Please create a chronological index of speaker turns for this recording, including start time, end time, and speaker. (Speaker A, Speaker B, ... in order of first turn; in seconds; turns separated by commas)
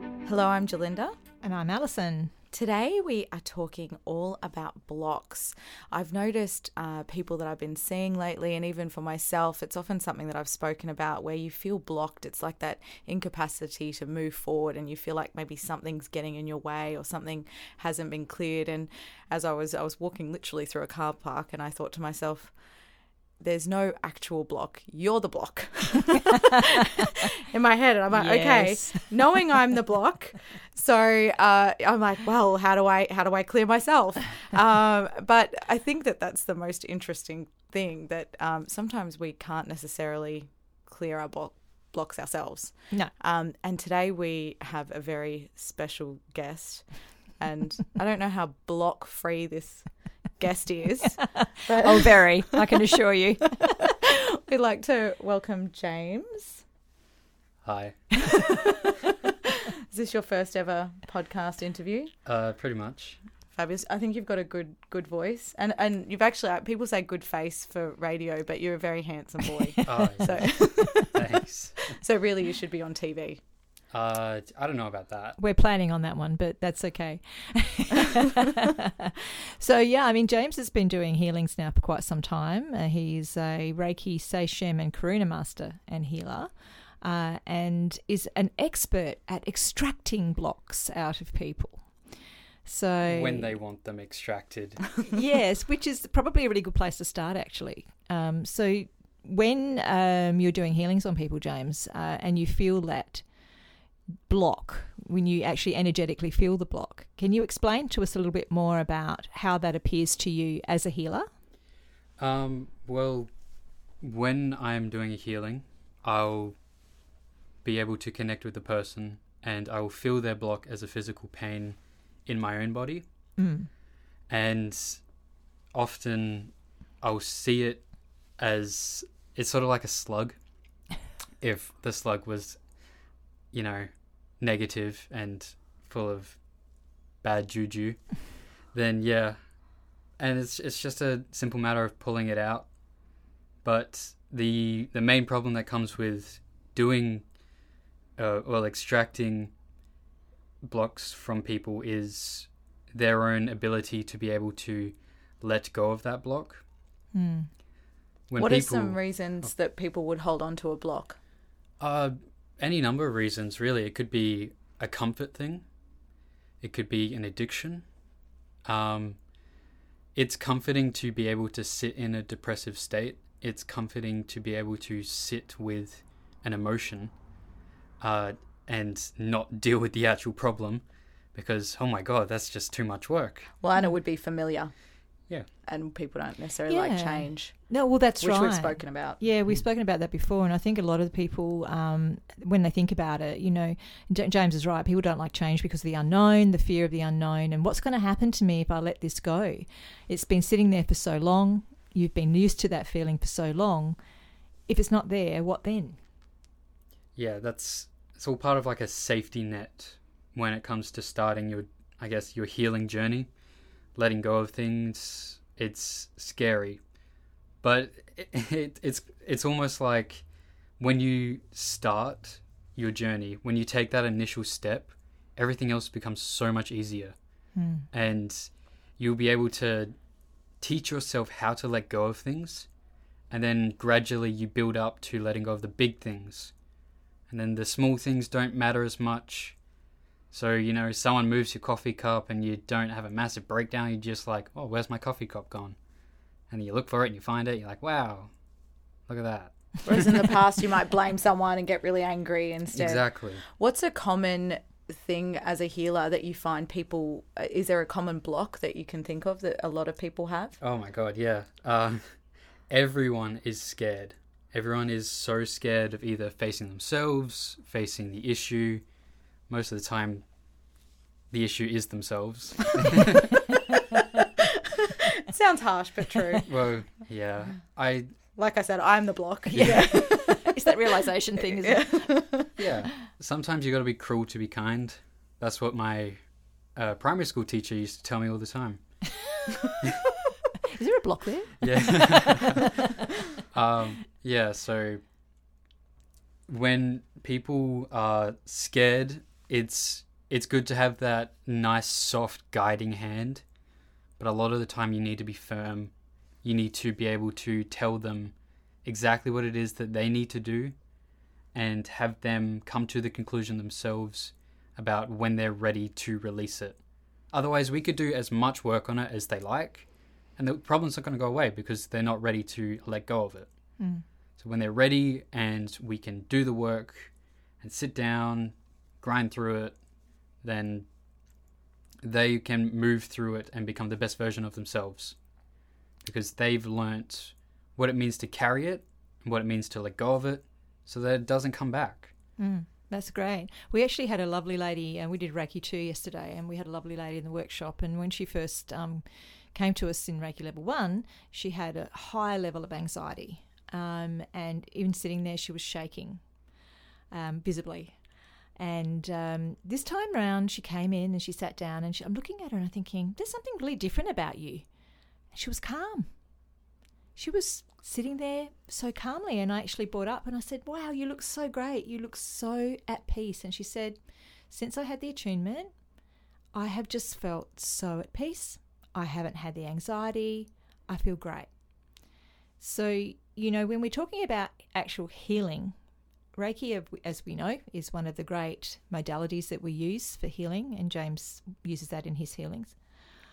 Speaker A: 0.2-1.1, Speaker B: 1.4-2.3, Speaker A: 2.5-22.5, Speaker A: 23.4-52.2, Speaker B: 28.1-29.1, Speaker B: 51.3-53.7, Speaker A: 54.0-56.6, Speaker C: 57.6-58.4, Speaker A: 59.9-62.1, Speaker C: 62.2-63.2, Speaker A: 63.5-71.2, Speaker B: 69.8-71.2, Speaker C: 69.8-72.0, Speaker A: 71.9-73.4, Speaker C: 73.9-75.4, Speaker B: 75.4-86.5, Speaker B: 87.0-91.9, Speaker B: 92.7-93.5, Speaker C: 93.0-94.9, Speaker B: 95.1-103.2, Speaker B: 104.3-111.3, Speaker C: 112.2-113.3, Speaker C: 114.0-116.5, Speaker C: 117.6-123.0, Speaker B: 123.4-123.7, Speaker C: 124.3-125.0, Speaker C: 125.7-130.4, Speaker C: 131.4-132.6, Speaker C: 133.5-136.4, Speaker C: 137.2-139.4, Speaker C: 140.2-142.7, Speaker C: 143.6-147.2, Speaker C: 148.2-149.5, Speaker C: 150.6-156.6, Speaker B: 157.1-157.5, Speaker C: 158.3-159.0, Speaker A: 158.4-161.2, Speaker C: 161.8-165.7, Speaker C: 166.6-167.9, Speaker C: 168.7-169.2, Speaker C: 170.2-177.1, Speaker C: 178.0-183.5, Speaker A: 183.6-184.7, Speaker A: 185.6-189.2, Speaker B: 186.7-204.0, Speaker B: 204.7-206.0, Speaker C: 207.2-213.3, Speaker C: 213.9-216.8, Speaker C: 217.6-220.2, Speaker C: 220.8-227.2, Speaker B: 227.6-227.9, Speaker C: 227.9-230.0, Speaker C: 230.6-232.7, Speaker C: 233.3-236.5, Speaker C: 237.3-239.6, Speaker C: 240.3-245.8, Speaker C: 246.5-248.3, Speaker C: 249.1-250.2, Speaker A: 249.8-260.6, Speaker C: 252.7-253.4, Speaker C: 260.6-268.8, Speaker C: 269.5-270.2, Speaker C: 271.3-273.3, Speaker A: 275.2-276.5, Speaker C: 276.5-278.1, Speaker A: 278.4-280.6, Speaker C: 279.5-279.9, Speaker B: 279.6-282.2, Speaker A: 281.5-282.5, Speaker C: 282.6-286.2, Speaker C: 286.8-289.0, Speaker B: 290.7-292.6, Speaker C: 291.6-292.7, Speaker C: 293.5-295.0, Speaker C: 296.5-303.4, Speaker C: 304.2-305.9, Speaker C: 306.4-310.7, Speaker C: 311.5-316.8, Speaker C: 317.3-323.5, Speaker B: 323.8-324.0, Speaker C: 324.4-329.8, Speaker C: 330.4-330.9, Speaker C: 332.0-335.1, Speaker C: 336.0-342.1, Speaker B: 342.4-356.2, Speaker B: 357.1-358.0, Speaker B: 358.6-364.6, Speaker B: 365.3-366.1, Speaker B: 367.1-374.0, Speaker B: 374.5-375.7, Speaker B: 376.5-381.5, Speaker B: 382.6-385.7, Speaker B: 386.4-392.8